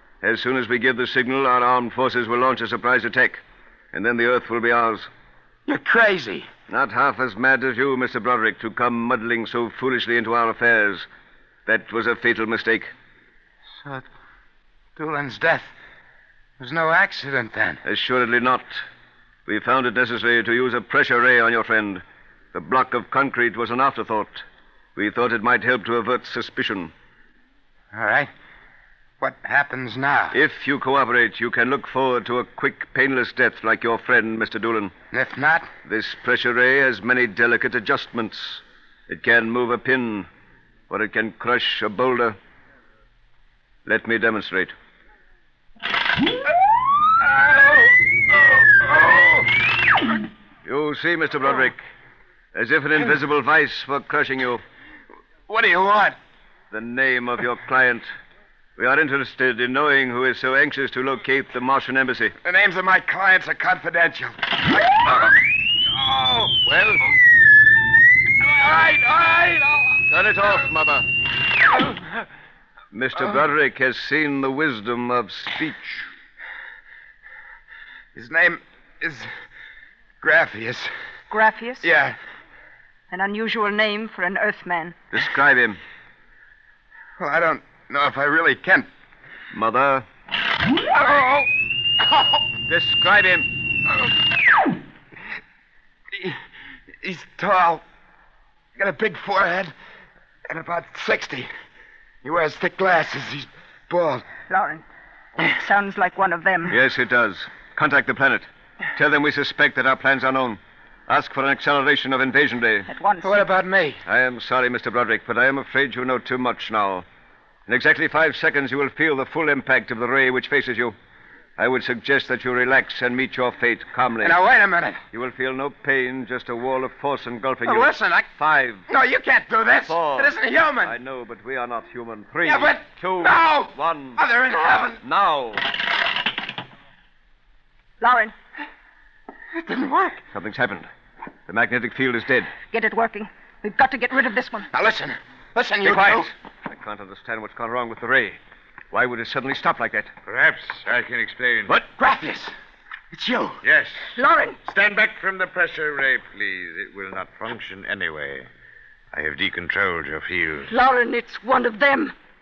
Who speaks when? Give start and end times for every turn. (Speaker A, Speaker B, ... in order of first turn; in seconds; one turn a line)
Speaker A: 0.2-5.1
Speaker B: 5.7-6.5
Speaker A: 6.7-11.1
Speaker A: 11.7-12.9
Speaker B: 13.8-14.1
Speaker B: 15.0-15.8
Speaker B: 16.6-17.8
Speaker A: 17.9-18.8
Speaker A: 19.5-22.0
Speaker A: 22.5-24.4
Speaker A: 25.0-26.9
Speaker B: 27.9-28.3
Speaker B: 29.2-30.4
Speaker A: 30.3-34.9
Speaker B: 35.1-35.7
Speaker A: 35.9-40.3
Speaker A: 40.9-42.4
Speaker A: 43.9-44.7
Speaker B: 47.2-49.5
Speaker A: 50.6-51.8
Speaker A: 52.5-54.6
Speaker B: 55.5-56.2
Speaker A: 56.7-58.1
Speaker A: 58.8-62.3
Speaker B: 62.4-67.0
Speaker A: 66.7-67.0
Speaker B: 68.4-70.0
Speaker A: 70.1-71.1
Speaker A: 72.9-76.1
Speaker B: 78.2-79.3
Speaker B: 80.2-80.9
Speaker C: 81.3-81.9
Speaker B: 81.8-82.2
Speaker C: 83.1-85.0
Speaker A: 85.1-85.8
Speaker B: 87.2-88.9
Speaker A: 89.5-90.0
Speaker B: 90.9-91.5
Speaker B: 92.0-92.4
Speaker A: 92.7-93.5
Speaker B: 96.1-96.4
Speaker B: 97.0-97.8
Speaker B: 98.8-99.7
Speaker B: 100.5-101.5
Speaker B: 102.2-104.2
Speaker C: 104.5-104.8
Speaker C: 105.4-106.8
Speaker A: 106.7-112.9
Speaker C: 112.9-113.5
Speaker B: 113.2-114.0
Speaker A: 114.0-117.0
Speaker A: 117.7-121.0
Speaker A: 121.6-124.4
Speaker B: 124.2-125.0
Speaker A: 125.1-128.9
Speaker B: 127.7-128.3
Speaker B: 128.9-130.9
Speaker A: 129.9-134.2
Speaker B: 132.4-135.0
Speaker A: 135.0-135.7
Speaker C: 138.0-138.3
Speaker B: 139.5-140.2
Speaker A: 140.3-140.9
Speaker A: 141.5-142.5
Speaker C: 142.7-144.7
Speaker B: 144.7-146.3
Speaker A: 145.8-148.4
Speaker A: 148.9-150.1
Speaker D: 150.2-151.8
Speaker B: 151.7-152.5
Speaker B: 153.1-153.6
Speaker D: 153.6-154.1
Speaker C: 154.2-154.6
Speaker D: 154.6-158.5
Speaker D: 159.1-160.7
Speaker C: 160.7-162.2